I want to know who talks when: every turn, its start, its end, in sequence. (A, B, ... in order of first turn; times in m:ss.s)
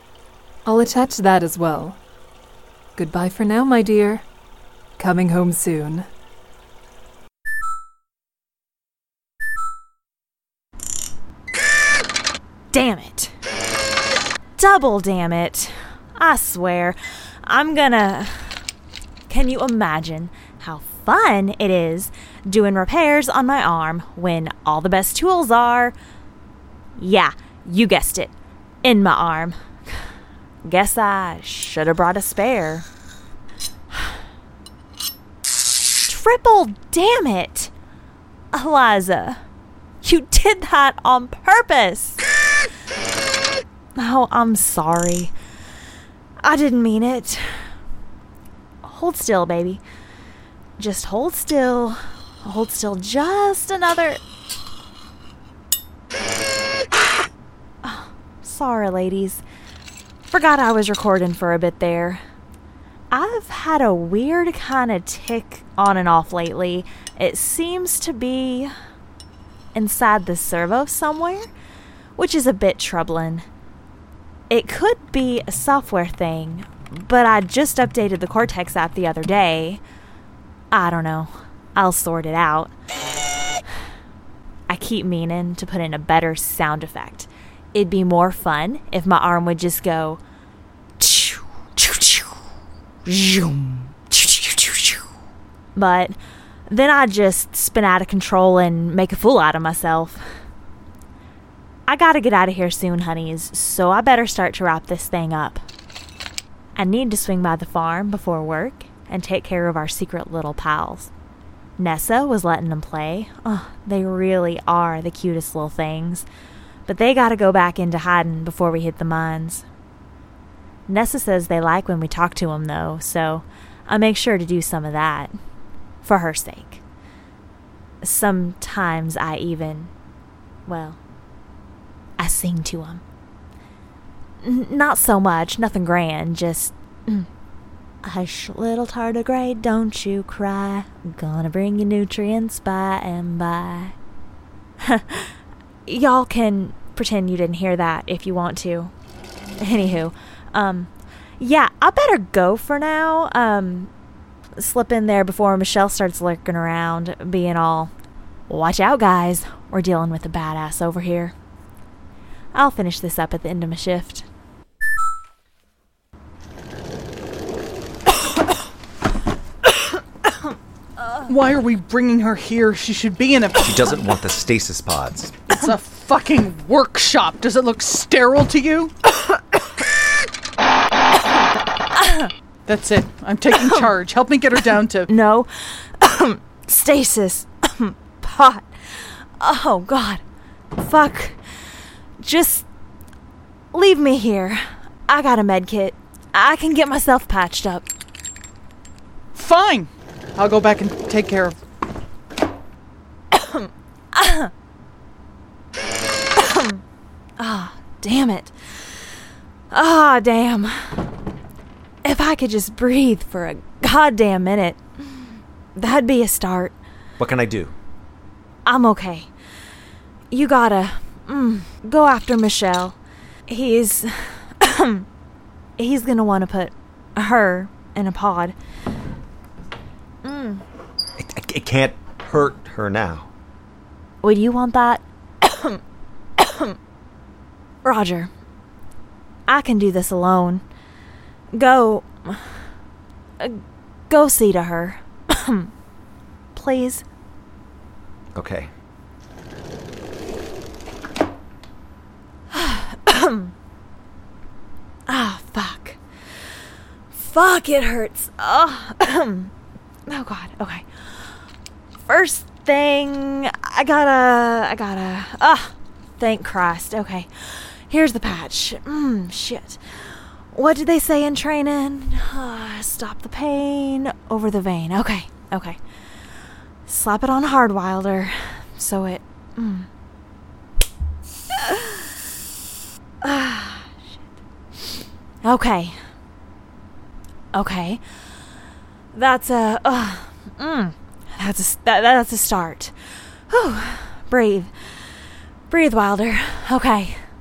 0:00.6-0:02.0 A
0:03.0-0:04.2 A
0:05.0-0:06.1 A
0:12.7-0:13.4 B
0:14.6-0:18.6 B
0:19.3-0:25.9 B
0:27.0-0:28.3 B
0:28.8-0:30.0 B
0:30.6-0:32.9 B
0:36.0-0:37.7 B
0:38.5-0:39.4 B
0:40.0-0:42.2 B
0:44.0-0:45.3 B
0:46.4-0:47.7 B
0:48.8-0:49.8 B
0:50.8-0:54.2 B
0:57.8-0:59.4 B
1:00.3-1:02.2 B
1:03.1-1:08.7 B
1:09.7-1:11.5 B
1:12.2-1:13.5 B
1:14.5-1:19.8 B
1:20.7-1:22.7 B
1:24.7-1:30.2 B
1:31.0-1:32.4 B
1:33.1-1:35.1 B
1:35.8-1:36.2 B
1:36.7-1:40.4 B
1:41.9-1:45.6 B
1:46.8-1:51.1 B
1:51.8-1:56.3 B
1:56.9-1:59.7 B
2:00.9-2:05.3 B
2:06.0-2:06.8 B
2:08.0-2:09.9 B
2:10.7-2:11.0 B
2:12.2-2:13.0 B
2:14.4-2:17.3 B
2:18.0-2:24.0 B
2:24.8-2:25.3 B
2:25.9-2:28.9 B
2:29.6-2:33.9 B
2:34.6-2:37.9 B
2:38.5-2:41.3 B
2:42.5-2:44.3 B
2:51.3-2:53.8 C
2:53.6-2:55.4 D
2:55.5-2:58.9 C
3:02.0-3:02.3 B
3:02.7-3:05.1 C
3:03.5-3:03.9 B
3:05.1-3:10.2 B
3:10.8-3:12.7 B
3:13.7-3:17.9 B
3:19.4-3:21.6 C
3:23.3-3:24.5 B
3:26.4-3:26.8 B
3:27.4-3:29.2 B
3:29.7-3:31.0 B
3:32.0-3:36.8 B
3:37.2-3:37.7 D
3:38.7-3:39.3 B
3:40.3-3:43.0 B
3:43.5-3:45.1 B
3:45.8-3:48.6 B
3:50.2-3:50.6 B
3:51.2-3:53.3 D
3:54.2-3:55.8 B
3:56.4-3:56.8 B
3:57.8-3:58.3 B
3:59.5-4:00.6 B
4:01.5-4:02.7 B
4:03.4-4:05.7 B
4:06.5-4:07.0 B
4:08.4-4:08.7 D
4:12.5-4:13.5 B
4:15.1-4:16.5 B
4:17.1-4:19.5 B
4:20.1-4:21.4 B
4:22.1-4:35.8 B
4:36.9-4:39.9 B
4:41.5-4:42.1 B
4:43.2-4:44.2 B
4:44.8-4:46.0 B
4:47.5-4:48.0 B
4:49.1-4:57.2 B